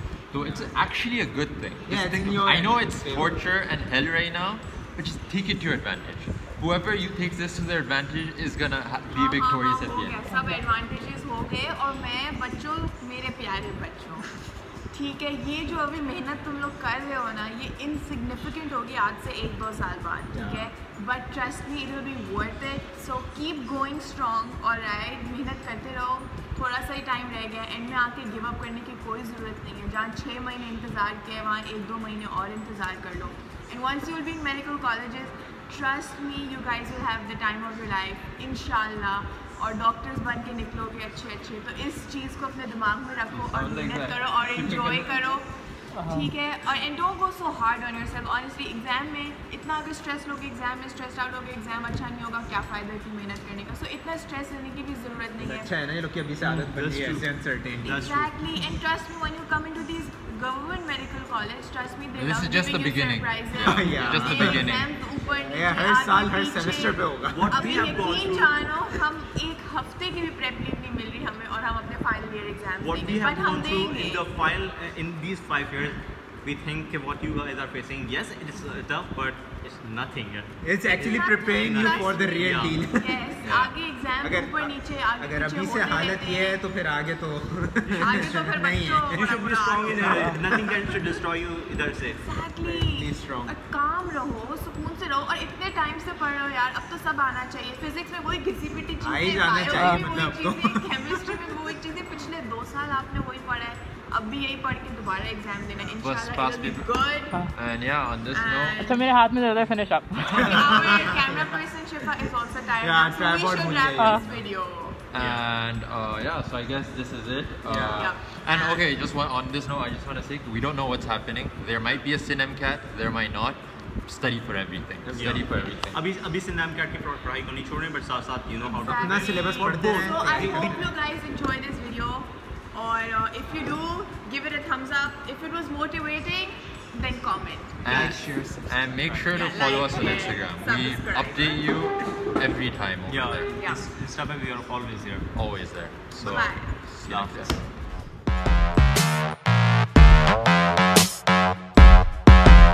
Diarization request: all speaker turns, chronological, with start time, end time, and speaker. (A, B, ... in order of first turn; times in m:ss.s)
0:00.3-0:10.2 A
0:01.9-0:03.4 B
0:09.1-0:14.2 C
0:14.9-0:45.4 C
0:20.3-0:20.7 D
0:43.3-0:45.1 A
0:46.0-0:46.3 E
0:46.0-0:55.7 C
0:55.4-0:58.6 B
0:56.4-0:58.3 D
0:58.0-1:14.3 C
1:02.1-1:04.9 A
1:03.5-1:04.7 B
1:04.0-1:04.3 D
1:05.4-1:07.8 B
1:07.3-1:08.6 D
1:12.8-1:22.8 D
1:20.6-1:23.2 B
1:20.9-1:26.6 C
1:23.4-1:23.7 A
1:24.2-1:30.7 B
1:27.8-1:28.3 D
1:28.0-1:30.3 C
1:29.1-1:32.2 D
1:32.1-1:47.4 C
1:32.6-1:33.5 B
1:39.0-1:41.5 B
1:39.7-1:40.1 E
1:46.0-1:46.9 A
1:47.5-1:48.9 A
1:48.3-1:49.1 C
1:48.8-1:50.7 E
1:50.3-1:55.0 C
1:50.3-1:51.5 B
1:50.8-1:51.1 A
1:52.8-1:54.2 B
1:54.0-1:54.3 E
1:55.1-2:06.0 A
1:55.1-1:55.4 D
1:57.6-1:58.0 B
1:57.9-1:58.8 C
2:05.0-2:05.4 B
2:05.1-2:10.8 D
2:08.6-2:18.1 C
2:08.9-2:10.8 B
2:17.8-2:23.5 A
2:17.8-2:19.4 B
2:19.3-2:21.8 C
2:23.1-2:25.3 D
2:23.4-2:23.8 C
2:25.3-2:27.6 A
2:26.2-2:26.8 C
2:27.1-2:27.6 D